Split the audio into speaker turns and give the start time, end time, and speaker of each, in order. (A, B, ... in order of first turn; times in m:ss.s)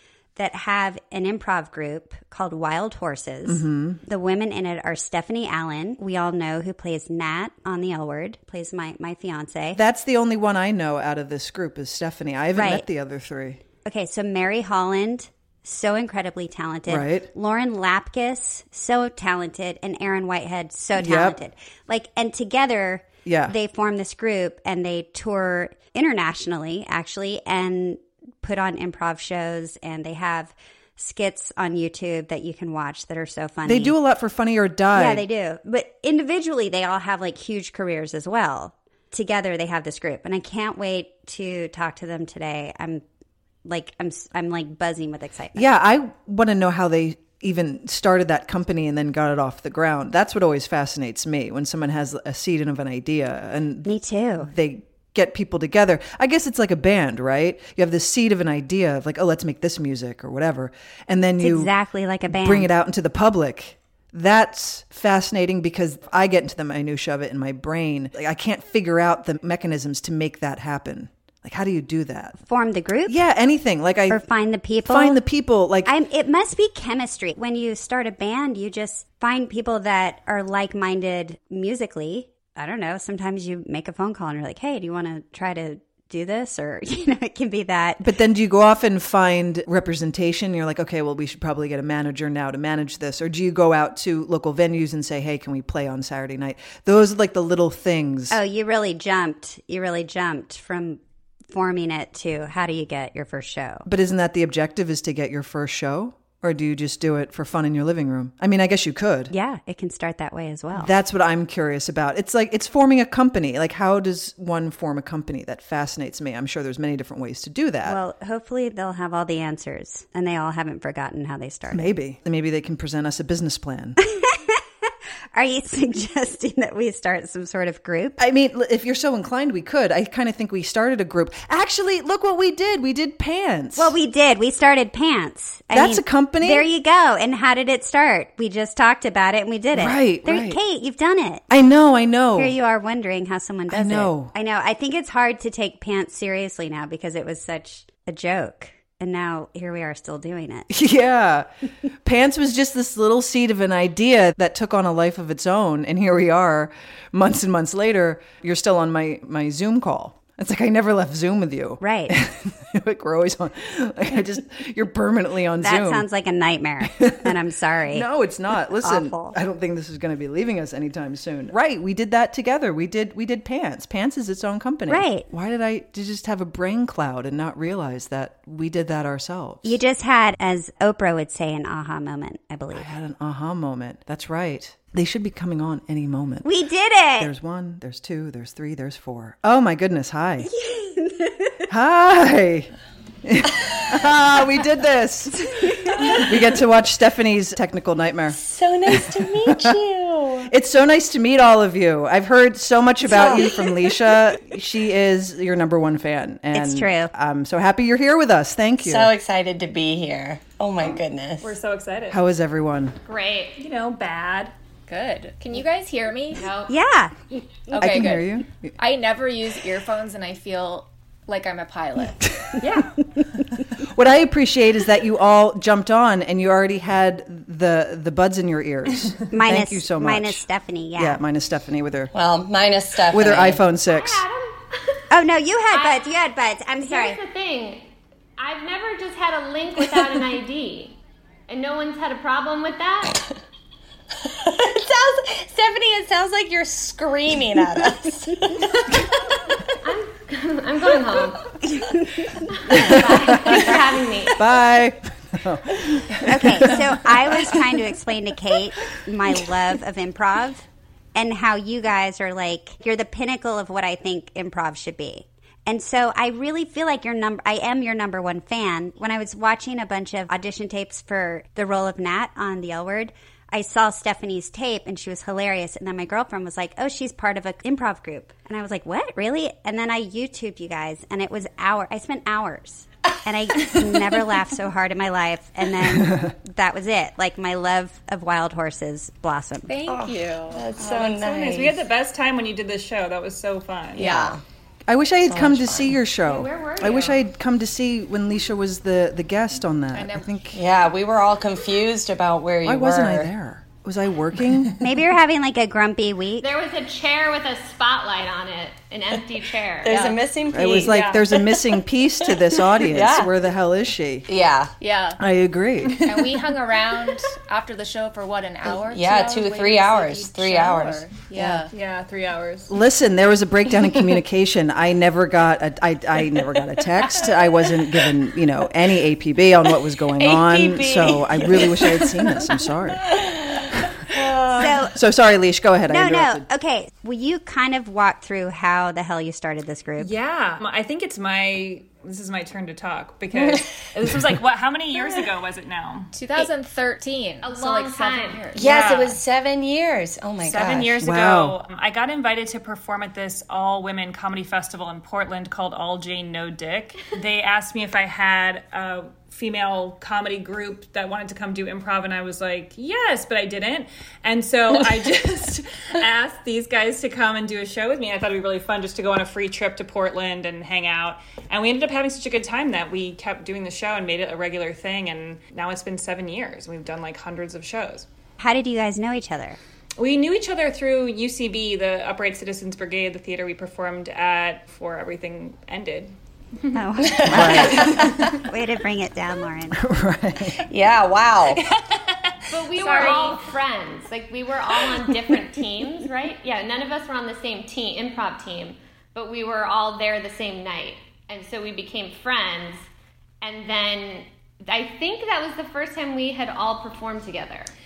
0:00.4-0:09.8 A
0:03.4-0:04.0 B
0:09.7-0:13.6 B
0:12.5-0:12.9 A
0:13.8-0:34.0 A
0:16.9-0:17.3 B
0:21.0-0:21.4 B
0:23.2-0:23.5 B
0:33.6-0:35.2 B
0:34.9-0:43.0 A
0:43.6-0:45.7 A
0:45.5-1:01.7 B
0:53.8-0:54.5 A
1:01.4-1:02.7 A
1:02.3-1:12.4 B
1:12.4-1:13.2 A
1:13.1-1:14.2 B
1:14.1-1:15.2 A
1:14.8-1:15.9 B
1:15.8-1:28.1 A
1:28.0-1:38.4 B
1:38.3-1:41.0 A
1:41.5-1:43.9 A
1:43.8-1:49.3 B
1:49.3-1:50.9 A
1:50.7-1:58.0 B
1:57.8-2:01.9 A
2:01.7-2:04.0 B
2:04.0-2:04.6 A
2:05.3-2:08.2 A
2:08.2-2:13.9 B
2:13.7-2:21.4 A
2:15.7-2:16.7 B
2:19.7-2:20.6 B
2:21.5-2:22.5 B
2:22.4-2:30.7 A
2:23.7-2:24.3 B
2:30.7-2:31.5 B
2:32.0-2:46.1 B
2:41.8-2:42.2 A
2:45.6-2:48.1 A
2:46.8-2:47.3 B
2:47.9-2:59.8 B
2:48.8-2:49.4 A
2:54.9-2:55.3 A
2:59.6-3:02.9 A
3:02.7-3:06.5 B
3:06.4-3:07.3 A
3:07.2-3:10.5 B
3:10.4-3:11.6 A
3:11.7-3:12.7 B
3:13.2-3:19.8 B
3:18.3-3:20.5 C
3:20.4-3:29.1 B
3:23.0-3:23.8 C
3:26.5-3:27.1 A
3:28.8-3:31.6 C
3:31.4-3:32.2 D
3:32.1-3:33.0 B
3:33.0-3:33.6 E
3:33.6-3:34.5 D
3:34.9-3:36.4 F
3:36.3-3:36.7 E
3:36.7-3:37.2 A
3:37.7-3:38.7 B
3:37.7-3:42.3 F
3:42.3-3:42.6 B
3:42.6-3:42.9 D
3:43.7-3:50.4 B
3:49.3-3:51.2 A
3:51.0-3:52.1 B
3:52.1-3:53.6 C
3:53.1-3:54.2 B
3:53.7-3:55.0 E
3:55.1-3:57.2 A
3:55.7-3:56.0 E
3:56.8-4:03.2 E
4:04.2-4:08.7 C
4:09.8-4:11.4 E
4:12.4-4:14.4 E
4:12.7-4:13.7 B
4:14.4-4:16.9 B
4:16.2-4:49.7 A
4:45.8-4:46.3 B
4:49.7-4:50.6 F
4:49.9-4:51.7 C
4:50.8-4:54.1 D
4:53.9-4:54.4 C
4:54.0-4:54.3 F
4:54.9-5:00.6 B
4:55.3-4:56.0 C
4:56.1-4:57.2 E
4:59.9-5:00.3 F
5:00.5-5:03.3 C
5:02.6-5:04.8 B
5:04.8-5:06.5 A
5:06.4-5:10.0 E
5:09.8-5:11.7 C
5:09.9-5:10.2 F
5:10.5-5:14.3 B
5:10.8-5:11.3 D
5:12.3-5:13.3 C
5:14.3-5:14.7 C
5:14.8-5:15.2 F
5:15.2-5:16.0 B
5:15.8-5:16.4 D
5:16.0-5:21.7 F
5:18.6-5:21.1 C
5:21.3-5:21.7 B
5:21.7-5:22.7 D
5:22.7-5:33.1 B
5:30.2-5:32.4 C
5:33.0-5:34.8 C
5:34.6-5:34.9 A
5:34.6-5:36.5 B
5:35.9-5:40.1 A
5:40.0-5:46.1 D
5:43.3-5:43.6 C
5:46.1-5:48.6 F
5:47.4-5:48.5 E
5:48.5-5:51.0 C
5:48.6-5:49.2 D
5:50.4-6:18.0 D
5:51.0-5:51.6 B
6:18.4-6:19.6 A
6:20.0-6:26.1 D
6:26.7-6:29.8 A
6:27.0-6:28.3 C
6:27.3-6:28.0 B
6:27.4-6:28.2 D
6:29.7-6:30.6 B
6:30.6-6:31.6 C
6:31.5-6:33.5 D
6:32.5-6:42.9 E
6:34.8-6:35.2 D
6:43.4-6:47.7 E